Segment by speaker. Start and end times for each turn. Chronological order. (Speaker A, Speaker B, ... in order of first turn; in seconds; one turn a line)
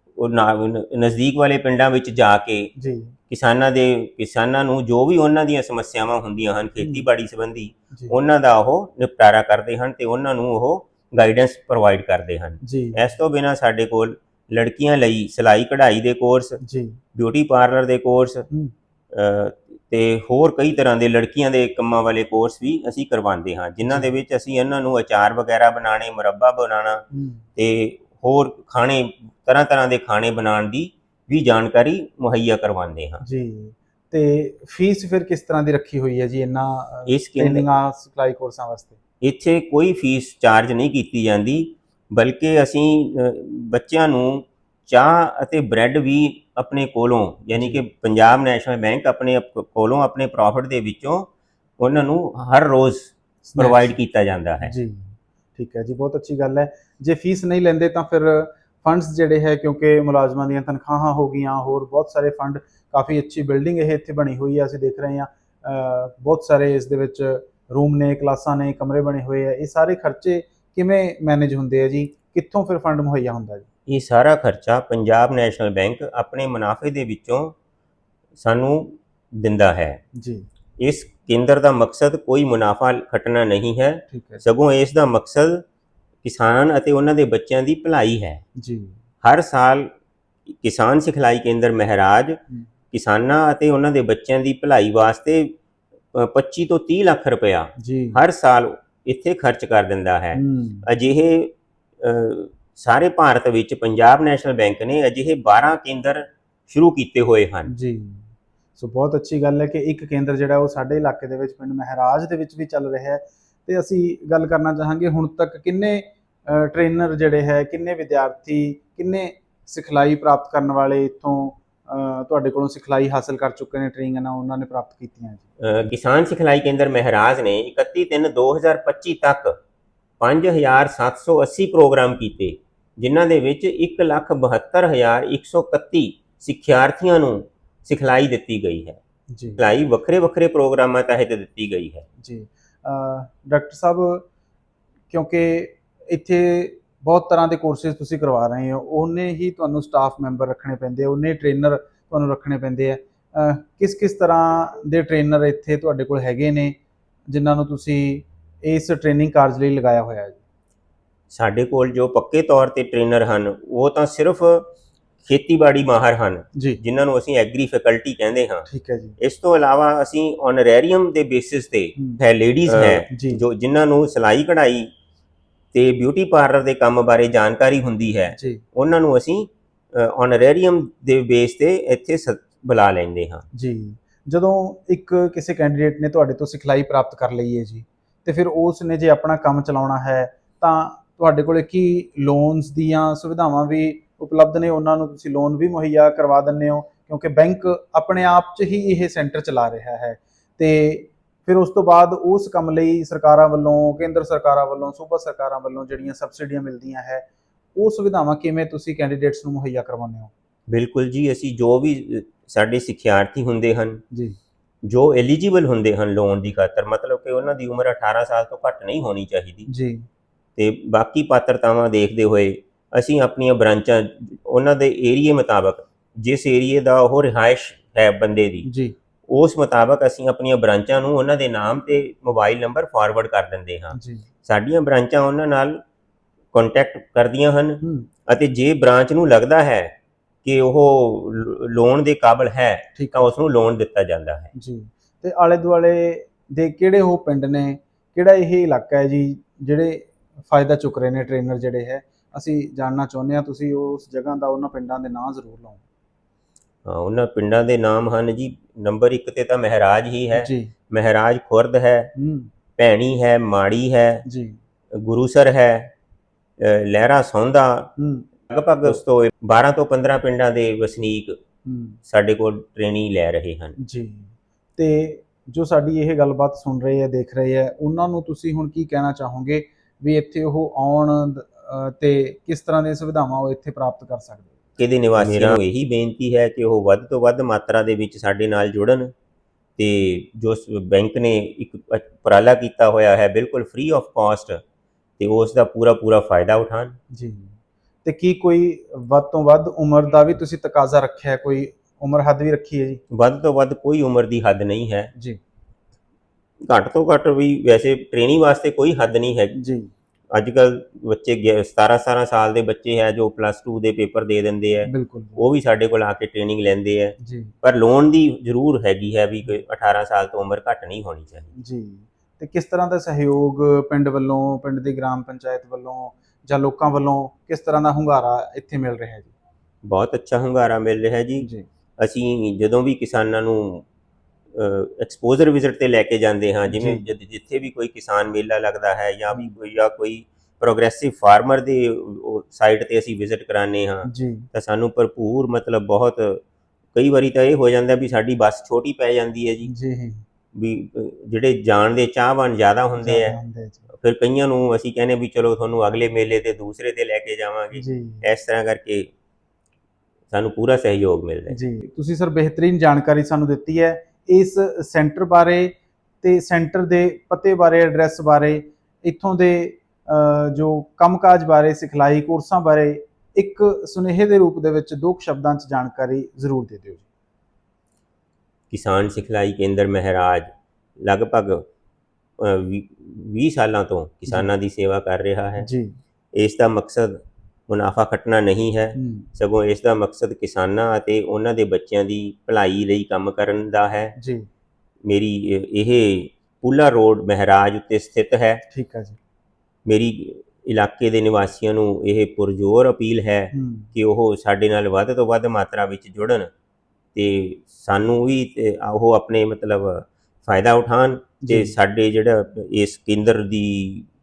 Speaker A: 0.2-2.7
Speaker B: 2.8-3.1
Speaker A: 3.3-16.6
Speaker B: 12.6-13.1
Speaker B: 16.6-17.0
Speaker A: 17.1-18.5
Speaker A: 19.1-27.0
Speaker B: 27.1-27.4
Speaker A: 27.6-33.2
Speaker B: 33.2-39.0
Speaker A: 37.1-37.7
Speaker A: 39.2-54.7
Speaker B: 53.5-53.9
Speaker B: 54.6-73.7
Speaker A: 73.9-77.5
Speaker A: 78.4-80.0
Speaker B: 80.2-80.5
Speaker A: 80.8-85.6
Speaker B: 84.1-84.4
Speaker A: 86.2-88.4
Speaker B: 88.6-89.0
Speaker A: 89.2-89.9
Speaker A: 90.5-92.4
Speaker A: 92.9-95.5
Speaker A: 96.1-107.7
Speaker B: 97.8-98.2
Speaker B: 100.3-100.9
Speaker B: 107.7-125.5
Speaker A: 125.6-129.6
Speaker A: 130.2-139.0
Speaker B: 139.3-139.7
Speaker A: 139.6-142.1
Speaker B: 142.2-144.2
Speaker B: 145.1-156.8
Speaker B: 157.3-160.4
Speaker A: 161.3-164.7
Speaker A: 165.2-168.7
Speaker B: 166.6-166.8
Speaker B: 168.7-169.2
Speaker A: 169.2-174.9
Speaker B: 172.0-173.4
Speaker A: 175.7-183.4
Speaker B: 178.3-178.6
Speaker B: 183.5-207.2
Speaker B: 207.8-210.3
Speaker A: 210.7-214.0
Speaker A: 214.9-219.7
Speaker B: 219.7-220.1
Speaker A: 220.6-228.7
Speaker B: 228.6-228.9
Speaker A: 229.3-235.8
Speaker B: 233.9-234.2
Speaker A: 236.5-239.9
Speaker B: 237.8-238.1
Speaker A: 240.4-244.5
Speaker B: 242.9-243.3
Speaker B: 244.5-255.8
Speaker A: 256.9-262.1
Speaker B: 260.4-260.7
Speaker B: 262.2-262.5
Speaker A: 262.8-264.2
Speaker B: 264.2-264.6
Speaker A: 264.9-265.9
Speaker A: 266.6-267.9
Speaker B: 268.0-268.3
Speaker A: 268.5-271.4
Speaker B: 271.7-272.0
Speaker A: 272.1-273.8
Speaker B: 273.8-285.6
Speaker A: 284.8-289.1
Speaker A: 289.8-294.6
Speaker A: 295.2-297.0
Speaker B: 297.1-303.0
Speaker A: 303.1-305.1
Speaker A: 306.6-309.5
Speaker B: 309.5-309.9
Speaker A: 310.3-321.5
Speaker B: 314.9-315.4
Speaker B: 317.2-317.5
Speaker B: 321.6-329.3
Speaker A: 329.9-331.5
Speaker B: 331.4-331.7
Speaker A: 332.0-333.9
Speaker A: 334.5-346.4
Speaker B: 336.7-337.0
Speaker B: 344.1-344.5
Speaker A: 346.9-349.7
Speaker B: 349.6-350.2
Speaker A: 350.5-353.4
Speaker B: 353.0-353.9
Speaker A: 354.0-359.1
Speaker B: 357.8-358.2
Speaker A: 360.3-361.6
Speaker B: 361.5-377.1
Speaker A: 378.7-381.6
Speaker A: 382.4-385.7
Speaker B: 385.6-386.0
Speaker A: 386.3-394.1
Speaker B: 389.0-389.3
Speaker B: 394.2-394.5
Speaker A: 395.1-398.6
Speaker B: 398.7-399.2
Speaker A: 399.9-406.5
Speaker B: 403.5-403.9
Speaker A: 407.1-414.1
Speaker B: 411.4-411.7